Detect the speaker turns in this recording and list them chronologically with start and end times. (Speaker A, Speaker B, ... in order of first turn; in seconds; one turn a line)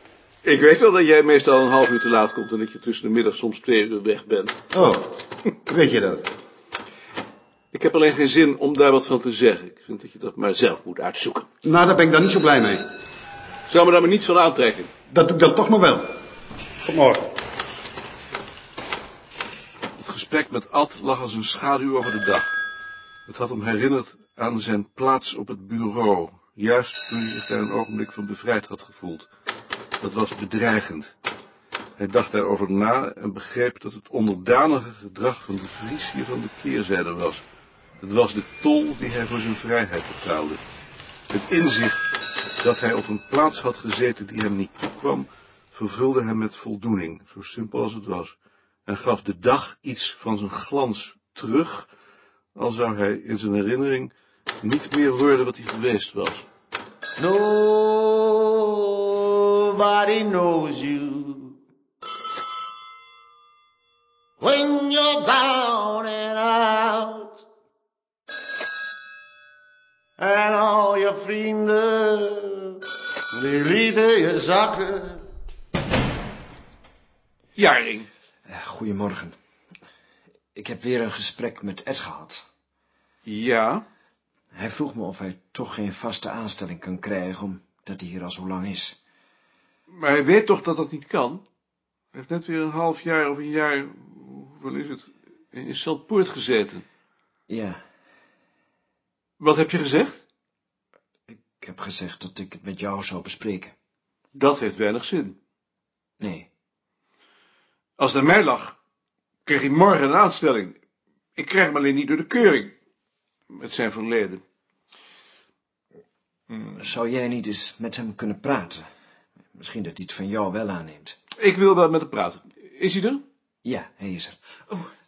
Speaker A: 0.4-4.5
Speaker B: 4.7-5.0
Speaker B: 5.7-6.2
Speaker A: 7.7-11.5
Speaker B: 11.6-12.8
Speaker A: 13.7-14.9
Speaker B: 15.1-16.0
Speaker B: 16.9-17.2
Speaker A: 20.0-22.5
Speaker A: 23.3-29.3
Speaker A: 30.0-31.1
Speaker A: 32.0-37.4
Speaker A: 38.0-40.6
Speaker A: 41.3-48.4
Speaker A: 48.9-51.9
Speaker A: 52.5-56.5
Speaker C: 57.2-61.5
Speaker C: 64.4-67.4
Speaker C: 70.2-72.8
Speaker C: 73.3-75.2
Speaker A: 77.5-78.1
Speaker D: 78.5-79.3
Speaker D: 80.5-82.4
Speaker A: 83.2-83.8
Speaker D: 84.5-89.0
Speaker A: 89.9-91.4
Speaker A: 92.1-96.8
Speaker D: 97.5-97.8
Speaker A: 99.4-100.2
Speaker D: 101.3-103.7
Speaker A: 104.3-105.4
Speaker D: 106.2-106.5
Speaker A: 108.0-108.8
Speaker A: 109.5-110.8
Speaker A: 111.3-112.7
Speaker A: 113.5-114.4
Speaker D: 116.7-118.8
Speaker D: 119.5-121.2
Speaker A: 121.4-123.2
Speaker D: 123.6-124.7